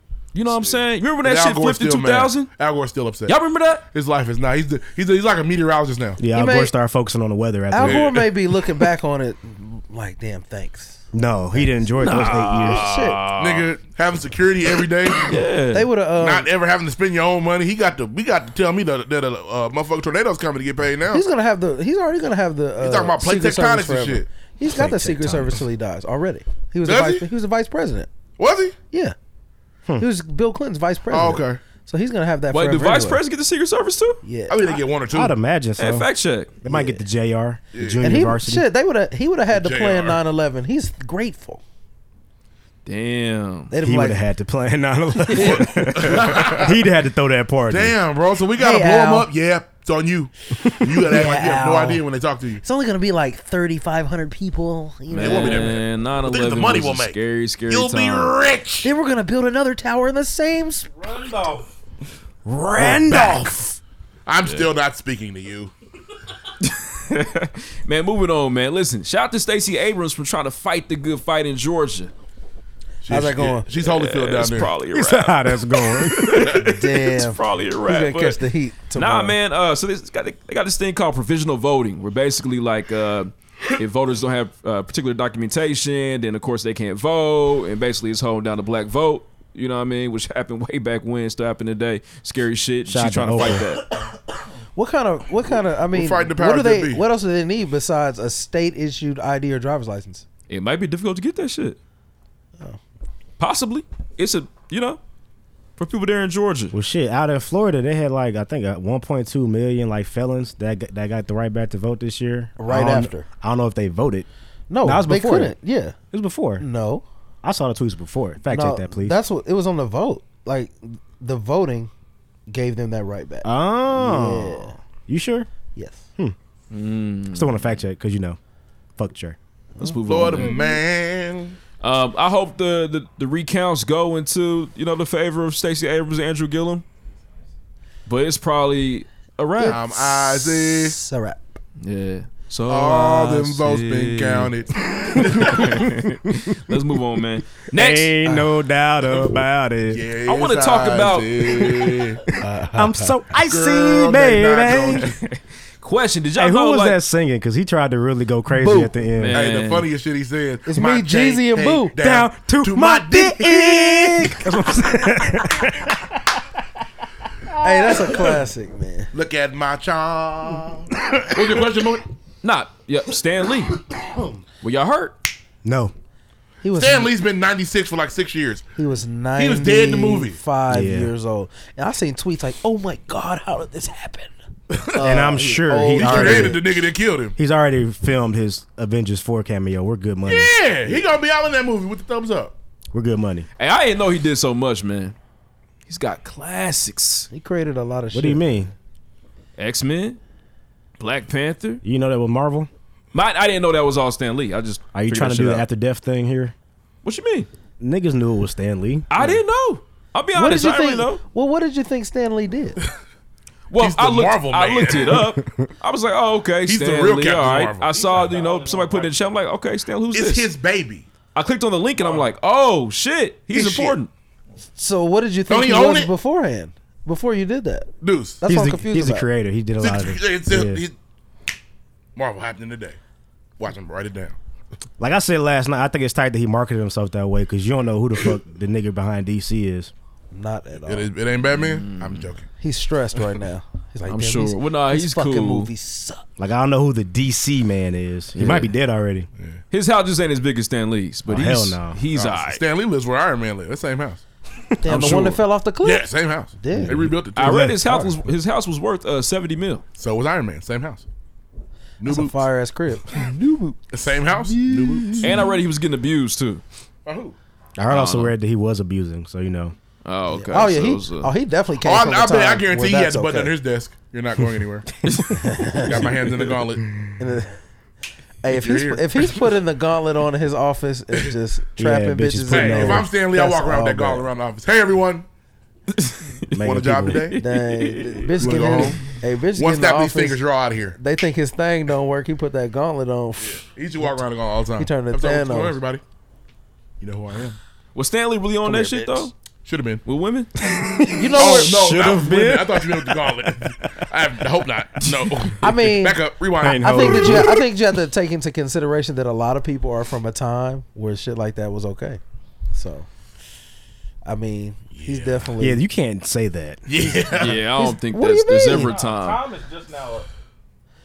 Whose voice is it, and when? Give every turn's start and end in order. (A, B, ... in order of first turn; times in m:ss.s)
0:00.3-0:02.5 A
0:00.5-0:03.4 B
0:03.2-0:03.8 A
0:03.9-0:06.2 B
0:06.2-0:08.1 C
0:06.3-0:06.7 D
0:07.7-0:13.2 D
0:07.8-0:08.3 B
0:11.1-0:12.9 C
0:12.0-0:13.7 A
0:13.4-0:15.4 B
0:15.2-0:15.9 A
0:15.7-0:16.5 D
0:16.2-0:21.2 B
0:21.1-0:28.1 D
0:22.8-0:24.3 B
0:24.6-0:25.6 C
0:26.8-0:27.3 B
0:28.4-0:28.8 B
0:30.0-0:33.2 D
0:31.1-0:31.6 B
0:32.5-0:34.2 A
0:34.2-0:34.8 D
0:34.5-0:35.3 B
0:35.1-0:36.1 C
0:35.8-0:36.5 A
0:36.6-0:38.6 C
0:36.6-0:37.0 D
0:37.7-0:38.0 B
0:38.0-0:41.6 D
0:39.5-0:40.2 B
0:42.8-0:43.7 A
0:43.7-0:44.2 D
0:43.8-0:47.9 C
0:45.3-0:45.6 D
0:45.4-0:46.7 B
0:47.7-0:52.6 B
0:48.6-0:49.3 D
0:51.1-0:52.0 D
0:52.6-0:55.7 D
0:55.1-0:58.4 A
0:55.2-0:57.2 B
0:57.7-0:58.9 B
0:58.8-1:00.9 D
1:00.9-1:01.7 E
1:02.4-1:03.8 C
1:02.8-1:03.5 B
1:04.2-1:05.7 B
1:04.4-1:04.7 A
1:06.6-1:12.1 A
1:13.0-1:14.7 B
1:13.1-1:13.7 D
1:13.8-1:18.4 A
1:14.9-1:16.6 C
1:16.5-1:19.4 D
1:18.9-1:33.9 A
1:32.8-1:33.8 C
1:34.8-1:40.2 D
1:35.9-1:37.0 B
1:40.5-1:41.8 A
1:43.4-1:45.0 A
1:45.8-1:46.7 A
1:46.7-1:54.3 C
1:52.6-1:53.3 D
1:54.7-1:56.0 D
1:54.8-1:55.6 C
1:56.1-1:56.6 C
1:56.6-1:57.0 D
1:57.4-1:59.2 C
1:58.5-2:01.9 D
2:02.5-2:04.8 D
2:03.4-2:05.5 C
2:05.7-2:06.0 D
2:06.7-2:07.8 A
2:07.3-2:08.4 C
2:09.0-2:09.4 C
2:09.8-2:10.6 A
2:10.1-2:11.6 B
2:11.8-2:16.8 A
2:18.0-2:19.8 A
2:19.6-2:21.6 D
2:19.6-2:21.0 B
2:21.8-2:24.5 A
2:22.7-2:26.0 B
2:25.2-2:28.1 A
2:26.3-2:26.7 C
2:27.7-2:30.1 C
2:29.9-2:32.2 B
2:30.2-2:32.0 A
2:32.4-2:33.2 D
2:32.7-2:35.2 C
2:33.4-2:35.2 B
2:35.3-2:37.0 A
2:36.3-2:39.4 C
2:38.5-2:38.9 D
2:39.2-2:39.9 A
2:39.3-2:44.4 B
2:40.7-2:41.9 D
2:42.0-2:46.4 C
2:47.5-2:48.3 C
2:47.6-2:49.1 D
2:49.1-2:52.0 B
2:52.4-2:53.8 A
2:54.6-2:55.2 A
2:55.6-2:55.9 C
2:56.6-2:57.1 D
2:56.7-2:58.6 B
2:58.8-3:04.3 D
2:59.4-3:00.4 B
3:00.7-3:01.1 C
3:04.7-3:05.0 B
3:04.9-3:06.6 D
3:05.0-3:06.7 C
3:05.9-3:07.3 B
3:07.4-3:11.0 C
3:10.2-3:12.5 B
3:12.9-3:13.5 C
3:13.6-3:15.2 A
3:15.9-3:17.3 A
3:17.3-3:18.5 D
3:18.1-3:18.7 C
3:19.6-3:20.2 A
3:21.0-3:21.8 A
3:21.8-3:22.7 C
3:23.1-3:25.7 A
3:24.9-3:26.5 C
3:27.0-3:27.5 A
3:27.8-3:29.4 C
3:29.1-3:31.2 A
3:30.3-3:32.8 D
3:33.7-3:40.5 A
3:33.8-3:35.2 B
3:35.4-3:35.6 C
3:36.6-3:37.9 B
3:37.8-3:39.4 E
3:40.1-3:41.0 B
3:41.3-3:44.1 A
3:43.5-3:44.0 B
3:44.8-3:47.9 D
3:45.5-3:46.1 B
3:48.0-3:48.4 B
3:48.4-3:49.3 D
3:48.4-3:50.8 C
3:49.8-3:50.9 B
3:52.2-3:53.0 B
3:53.6-3:54.4 B
3:55.0-3:59.9 C
4:00.3-4:01.1 D
4:00.9-4:02.5 B
4:01.5-4:02.3 A
4:02.6-4:06.2 D
4:04.1-4:05.7 A
4:06.4-4:09.3 C
4:08.3-4:08.7 A
4:09.7-4:12.6 A
4:11.3-4:12.0 C
4:12.1-4:14.2 B
4:14.8-4:17.1 D
4:14.8-4:15.4 A
4:15.8-4:17.7 B
4:16.7-4:18.1 C
4:17.3-4:19.8 A
4:20.0-4:21.0 B
4:22.0-4:22.4 B
4:22.1-4:23.8 D
4:23.9-4:25.4 B
4:24.5-4:25.2 D
4:25.2-4:26.6 A
4:27.0-4:27.3 B
4:27.8-4:29.7 C
4:27.9-4:28.3 A
4:30.0-4:31.3 A
4:30.3-4:33.5 D
4:31.8-4:34.9 B
4:35.0-4:35.4 A
4:35.4-4:36.1 D
4:35.7-4:36.9 B
4:37.2-4:37.5 D
4:38.4-4:44.3 D
4:38.5-4:39.0 B
4:41.8-4:43.1 C
4:42.5-4:45.2 B
4:45.9-4:46.6 A
4:46.5-4:47.2 C
4:46.6-4:47.4 B
4:47.1-4:48.9 A
4:47.4-4:50.4 D
4:48.4-4:51.0 B
4:51.0-4:53.6 D
4:53.6-4:56.0 B
4:54.8-4:55.8 D
4:57.0-4:57.6 B
4:57.9-4:59.3 A
4:58.6-4:59.3 D
4:59.6-5:00.0 B
5:00.0-5:00.5 A
5:00.6-5:03.9 C
5:01.1-5:02.0 D
5:01.3-5:07.6 B
5:05.0-5:05.5 C
5:05.6-5:06.2 D
5:06.6-5:07.6 C
5:06.8-5:12.2 D
5:12.7-5:13.1 D
5:14.2-5:15.8 D
5:14.9-5:15.5 B
5:15.6-5:16.8 C
5:16.8-5:17.6 B
5:17.3-5:19.4 A
5:17.7-5:19.0 D
5:18.7-5:20.3 E